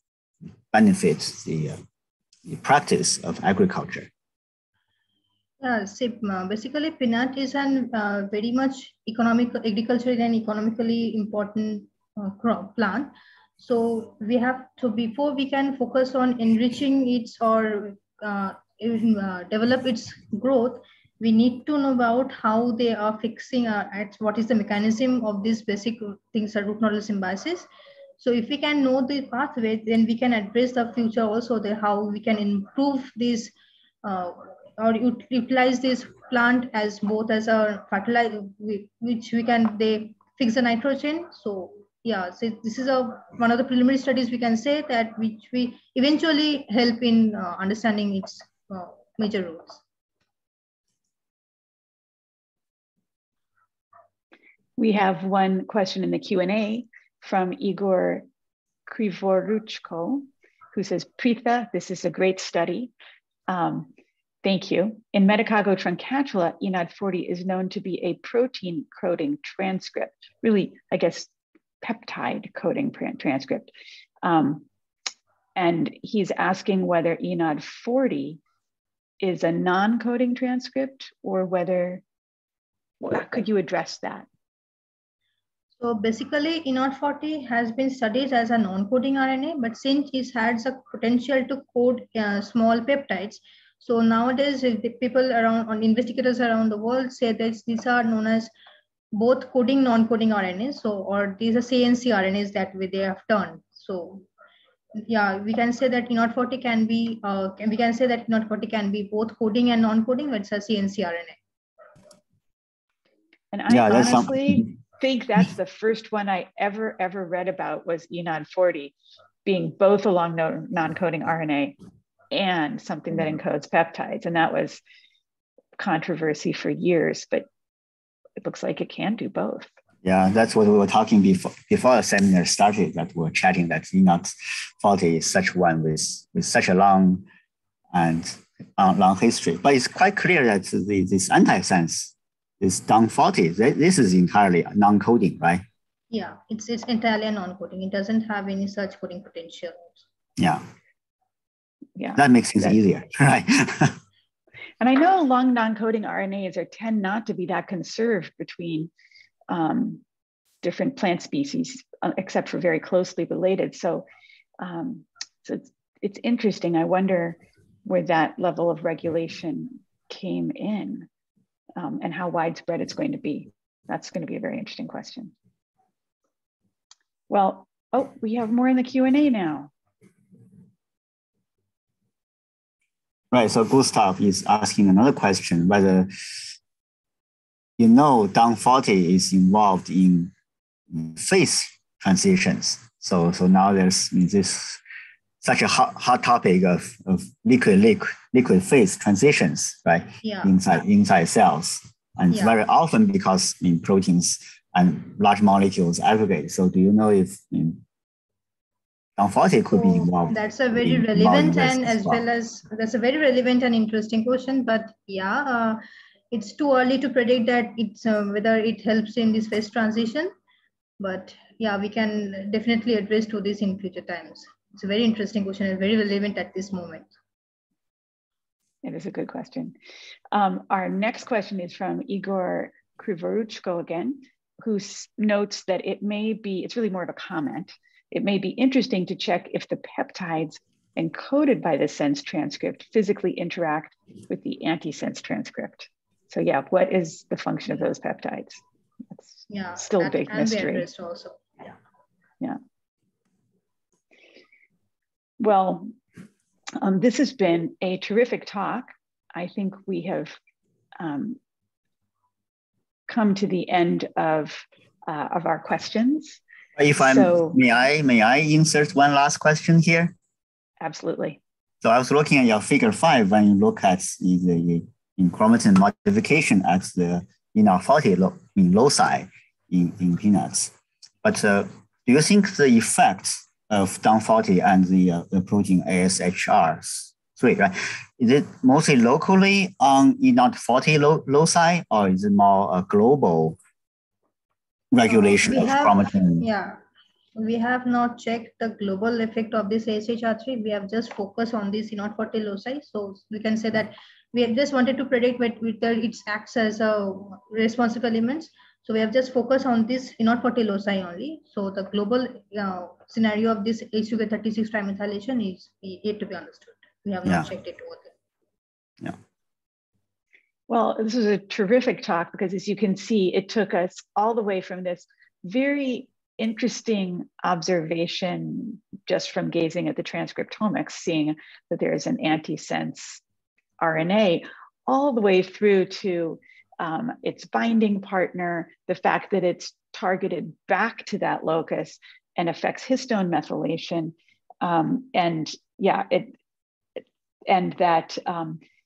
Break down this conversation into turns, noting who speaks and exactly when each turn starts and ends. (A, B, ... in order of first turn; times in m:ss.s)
0:00.7-0:01.8 A
0:02.5-0:04.1 A
0:05.6-0:27.7 B
0:28.2-0:49.8 B
0:54.8-0:58.3 C
0:58.9-1:02.9 C
1:03.5-1:03.9 C
1:04.4-1:11.3 C
1:11.8-1:13.7 C
1:14.2-1:14.7 C
1:15.6-1:18.4 C
1:19.2-1:22.0 C
1:23.0-1:24.3 C
1:25.8-1:38.5 B
1:39.1-1:44.3 B
1:45.1-1:51.4 B
1:53.5-1:58.9 C
1:53.7-1:54.7 A
1:59.4-2:01.8 C
2:02.3-2:04.8 C
2:05.8-2:07.5 C
2:08.4-2:09.7 C
2:10.0-2:17.2 A
2:17.9-2:25.6 A
2:26.1-2:30.0 B
2:30.4-2:30.6 A
2:32.0-2:32.8 C
2:32.2-2:34.0 A
2:34.8-2:38.9 C
2:39.5-2:40.0 C
2:40.6-2:44.1 C
2:44.6-2:51.1 C
2:51.8-2:55.3 C
2:57.3-2:59.7 C
3:03.3-3:06.1 A
3:07.8-3:10.3 A
3:10.9-3:14.8 A
3:15.4-3:27.8 A
3:20.2-3:20.5 B
3:22.3-3:22.6 B
3:29.2-3:32.2 A
3:29.7-3:40.3 B
3:41.0-3:47.1 B
3:48.8-3:49.8 C
3:50.3-4:10.9 C
4:09.5-4:11.4 B
4:15.4-4:15.9 C
4:16.8-4:20.4 C
4:21.0-4:21.4 C
4:23.1-4:26.4 C
4:26.8-4:30.1 A
4:27.0-4:27.6 C
4:30.8-4:31.4 C
4:31.8-4:53.6 A
4:54.9-4:56.4 A
4:55.1-4:56.8 B
4:57.4-5:18.1 B
5:20.7-5:33.2 C
5:33.8-5:46.3 C
5:47.5-5:48.6 C